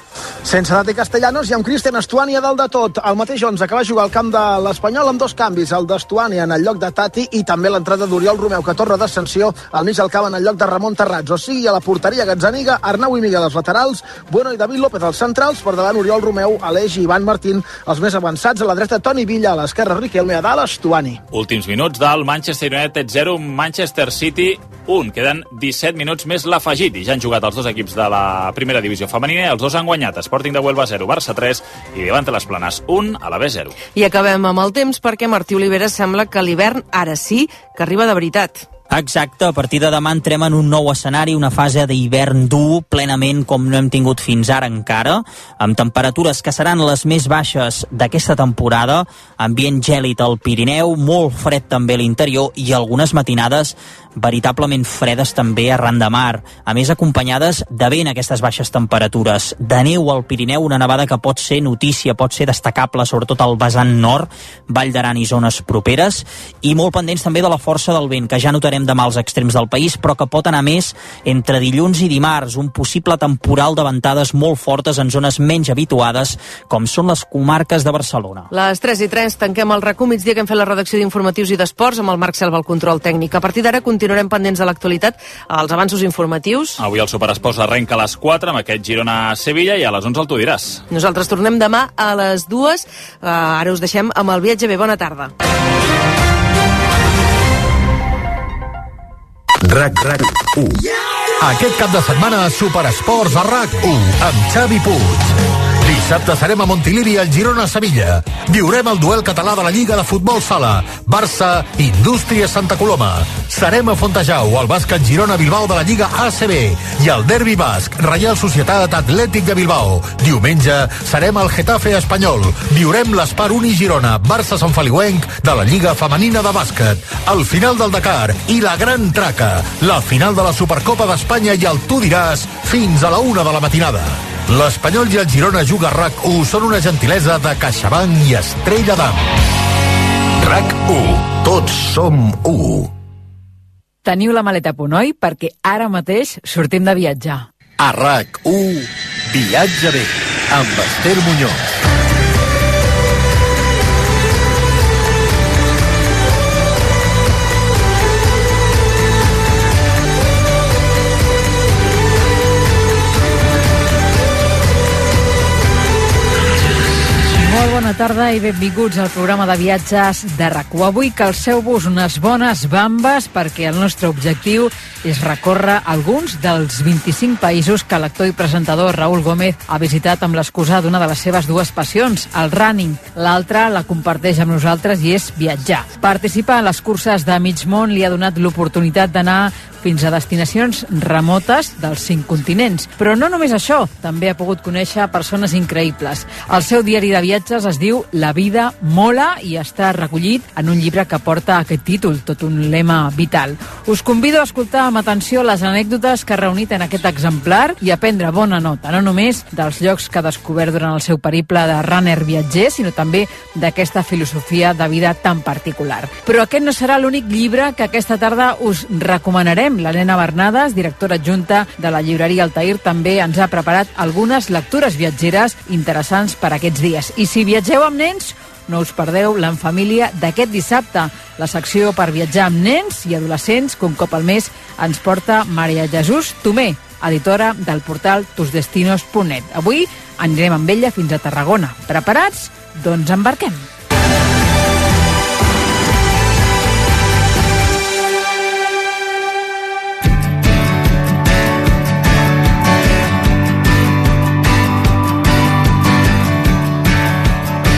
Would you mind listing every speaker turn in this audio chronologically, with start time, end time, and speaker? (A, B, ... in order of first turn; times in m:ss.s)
0:00.4-0:21.2 A
0:21.3-0:33.7 B
0:33.9-0:38.6 C
0:38.9-1:18.5 D
1:18.5-1:26.8 C
1:26.8-1:30.8 B
1:30.9-1:35.3 C
1:39.6-1:40.8 E
1:41.4-2:19.3 E
2:20.4-2:22.9 E
2:24.0-2:27.4 F
2:27.8-2:31.6 E
2:47.3-4:03.6 F